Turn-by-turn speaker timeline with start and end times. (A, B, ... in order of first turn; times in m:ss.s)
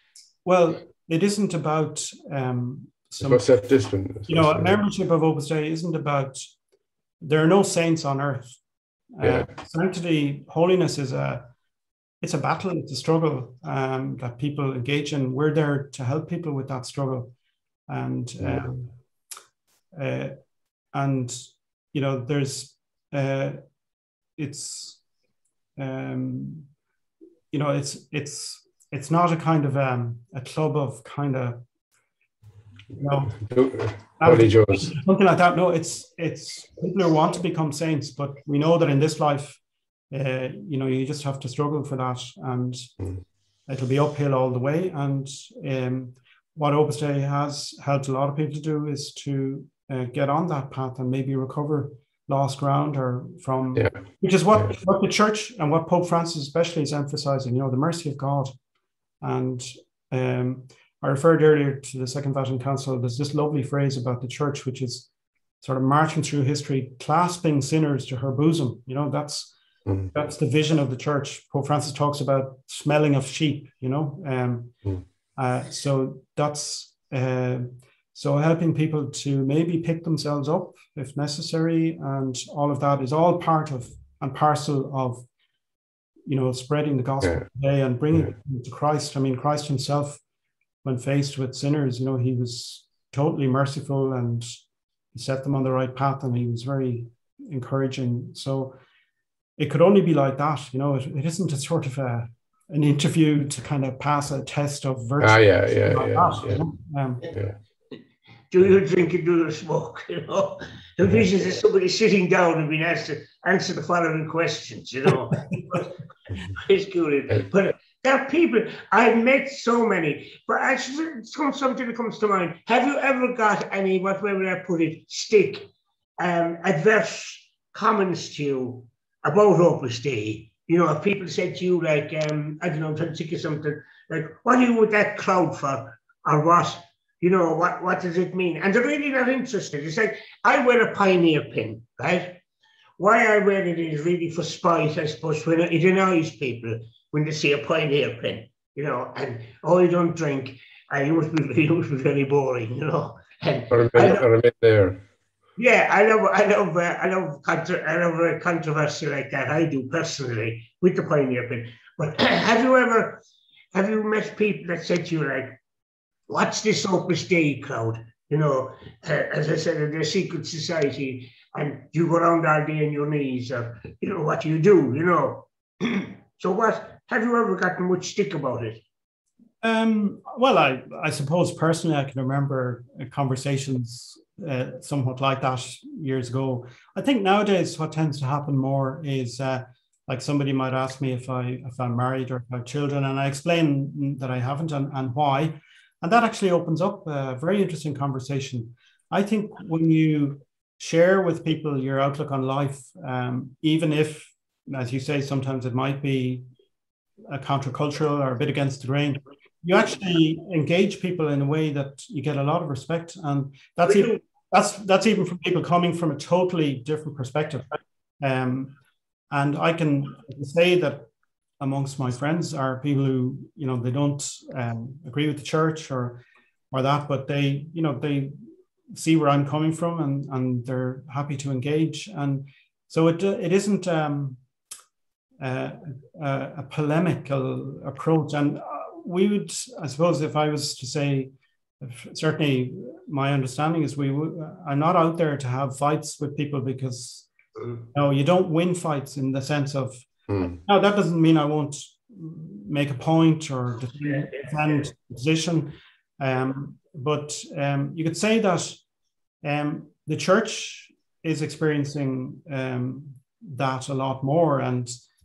0:00.4-0:03.4 A
0:03.2-0:04.7 B
0:04.3-0:06.4 A
0:07.2-0:08.5 A
0:09.2-0:11.5 A
0:09.2-0:09.5 B
0:12.2-0:17.3 A
0:17.9-0:18.9 A
0:18.4-0:18.7 B
0:19.9-0:20.4 A
0:20.9-0:23.6 A
0:24.4-0:25.0 A
0:25.8-0:26.7 A
0:27.5-0:31.6 A
0:33.0-0:33.4 A
0:33.4-0:34.9 B
0:34.2-0:39.6 A
0:40.1-0:43.0 A
0:43.7-0:58.5 A
0:59.2-1:05.1 A
1:05.6-1:09.5 A
1:10.1-1:14.8 A
1:15.4-1:25.2 A
1:26.3-1:30.2 A
1:30.8-1:34.6 A
1:35.1-1:38.8 A
1:39.6-1:47.3 A
1:45.2-1:46.6 B
1:48.5-1:55.9 C
1:55.3-1:55.8 A
1:56.5-2:22.4 C
2:23.0-2:34.2 C
2:33.7-2:35.0 B
2:35.6-2:43.2 C
2:43.7-2:45.6 C
2:46.3-2:58.8 C
2:59.6-3:26.4 A
3:27.3-3:38.7 A
3:33.9-3:34.1 C
3:39.3-3:41.1 A
3:41.6-3:48.4 A
3:48.9-3:54.4 A
3:55.4-4:07.3 A
4:07.9-4:18.8 A
4:10.3-4:10.6 B
4:14.1-4:14.5 C
4:19.4-4:25.0 A